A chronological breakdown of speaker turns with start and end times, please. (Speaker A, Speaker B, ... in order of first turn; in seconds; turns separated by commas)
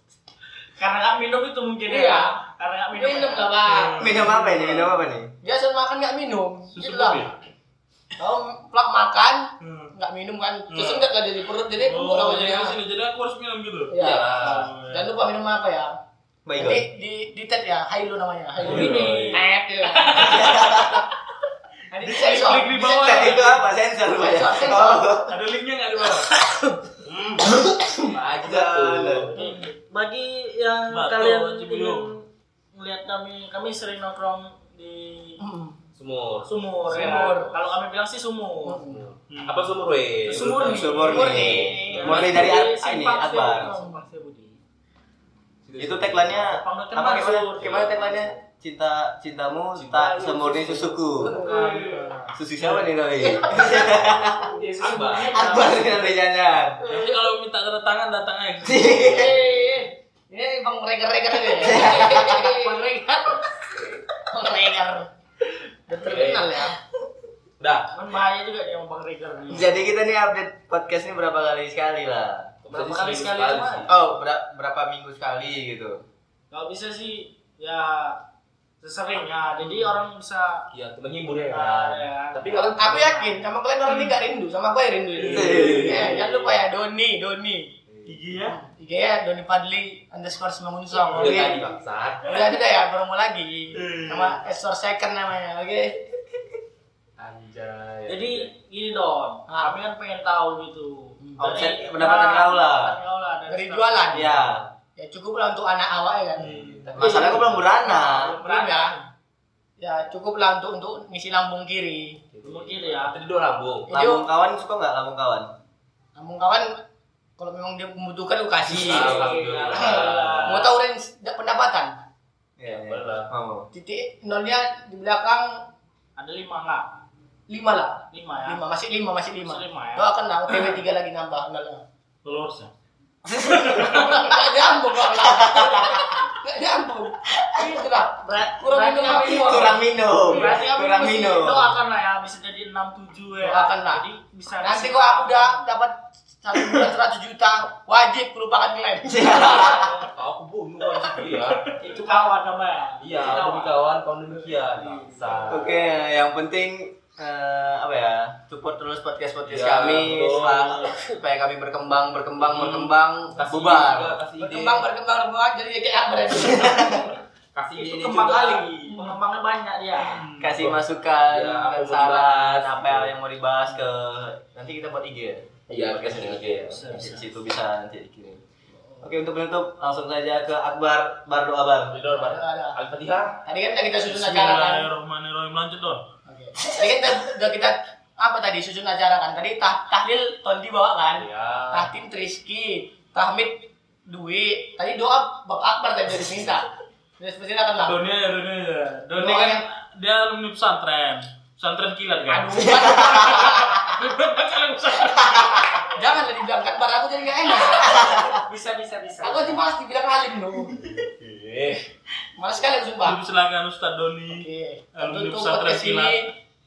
Speaker A: 0.8-3.8, Speaker B: 1.9-2.4, Speaker B: 2.9-4.1, Speaker C: 3.7-5.0, Speaker D: 4.0-5.3, Speaker B: 5.4-7.3, Speaker C: 6.7-7.3, Speaker B: 8.2-12.8, Speaker C: 9.6-9.9, Speaker C: 10.7-11.1, Speaker C: 11.8-15.1, Speaker B: 13.9-15.9, Speaker E: 13.9-14.7, Speaker D: 16.4-16.8, Speaker B: 16.6-21.0, Speaker A: 18.6-19.5, Speaker C: 18.6-19.4, Speaker E: 18.7-19.1, Speaker C: 19.9-20.9, Speaker D: 20.1-21.0, Speaker B: 21.9-23.6, Speaker C: 21.9-23.6, Speaker D: 22.8-25.4, Speaker B: 24.1-25.1, Speaker C: 25.2-26.4, Speaker D: 27.6-29.3, Speaker E: 28.1-29.3, Speaker A: 29.4-32.2, Speaker C: 30.9-32.1, Speaker A: 32.7-35.4, Speaker B: 35.4-35.8, Speaker E: 36.0-37.6, Speaker A: 36.5-38.8, Speaker B: 36.9-37.5, Speaker B: 38.6-39.0, Speaker E: 38.8-42.6, Speaker C: 39.3-39.7, Speaker A: 40.2-41.4, Speaker B: 40.3-42.2, Speaker D: 40.5-43.8, Speaker A: 42.0-44.6, Speaker B: 43.5-44.0, Speaker E: 45.6-46.5, Speaker D: 45.8-51.4, Speaker A: 46.4-48.3, Speaker E: 47.6-47.9, Speaker E: 49.7-51.5, Speaker B: 51.2-51.9, Speaker A: 51.4-52.2, Speaker C: 51.8-52.9, Speaker D: 52.3-54.5, Speaker B: 53.2-54.0, Speaker A: 54.5-56.0, Speaker E: 54.8-55.7, Speaker D: 55.3-56.8, Speaker C: 56.8-59.3, Speaker D: 58.6-59.4, Speaker A: 59.1-59.9, Speaker B: 59.3-59.7, Speaker B: 60.3-65.1, Speaker D: 61.5-62.4, Speaker A: 61.7-62.8, Speaker B: 65.9-66.8, Speaker E: 65.9-66.6, Speaker E: 67.6-67.9, Speaker A: 67.9-69.8, Speaker D: 69.5-72.5, Speaker E: 72.6-74.0, Speaker A: 72.7-73.9, Speaker D: 73.9-76.0, Speaker A: 76.5-78.2, Speaker A: 78.8-80.7, Speaker E: 80.7-83.2, Speaker A: 81.5-83.1, Speaker B: 82.5-87.7, Speaker C: 83.9-84.2, Speaker C: 85.1-85.6, Speaker D: 85.3-86.1, Speaker E: 85.3-86.3, Speaker E: 87.9-88.2, Speaker C: 88.0-88.6, Speaker B: 88.5-96.1, Speaker E: 91.1-92.3, Speaker C: 93.7-94.3, Speaker E: 97.2-98.5, Speaker A: 98.1-104.4, Speaker B: 99.5-99.7, Speaker D: 101.4-102.9, Speaker B: 103.5-104.3, Speaker D: 104.1-104.6, Speaker B: 105.0-107.4, Speaker C: 106.4-107.1, Speaker E: 106.4-107.6, Speaker D: 107.0-108.4, Speaker A: 107.9-108.9, Speaker B: 108.0-109.0, Speaker B: 109.8-112.2, Speaker E: 112.3-113.9, Speaker A: 112.4-113.2, Speaker B: 113.9-114.3, Speaker D: 113.9-115.5, Speaker B: 116.2-116.8, Speaker B: 117.4-122.0, Speaker E: 118.6-120.7, Speaker A: 118.8-120.7, Speaker D: 122.6-123.7, Speaker E: 122.6-123.3, Speaker B: 123.7-125.7, Speaker A: 126.2-126.9, Speaker B: 127.5-131.8, Speaker A: 128.1-128.6, Speaker A: 129.4-130.1, Speaker C: 132.2-132.7, Speaker D: 133.2-134.2, Speaker C: 133.5-134.1, Speaker B: 133.8-139.8, Speaker D: 135.2-136.2, Speaker A: 138.2-145.6, Speaker D: 139.1-141.8, Speaker B: 143.4-144.0, Speaker B: 144.6-149.9, Speaker D: 149.1-149.9, Speaker E: 150.1-151.7, Speaker A: 151.8-153.8, Speaker E: 153.0-155.9, Speaker A: 154.7-155.6, Speaker D: 155.5-164.2, Speaker E: 159.4-161.0, Speaker E: 162.4-164.9, Speaker B: 164.4-167.1, Speaker E: 167.5-168.9, Speaker A: 167.8-170.3, Speaker C: 170.1-170.6, Speaker D: 170.4-178.4, Speaker E: 170.6-173.1, Speaker E: 175.7-176.9, Speaker A: 176.7-177.3, Speaker D: 179.0-181.9, Speaker E: 181.9-183.4, Speaker B: 182.1-182.8, Speaker B: 183.4-184.9, Speaker C: 184.1-186.1, Speaker B: 186.2-196.7, Speaker E: 191.1-191.9, Speaker B: 197.2-198.0, Speaker C: 197.8-205.8, Speaker B: 199.2-199.6, Speaker B: 202.3-203.7, Speaker D: 202.8-203.3, Speaker B: 205.8-208.3, Speaker D: 207.9-208.4, Speaker A: 208.4-209.6, Speaker B: 209.2-210.9, Speaker E: 210.9-211.8, Speaker B: 212.4-213.2, Speaker C: 213.0-216.3, Speaker B: 214.3-216.3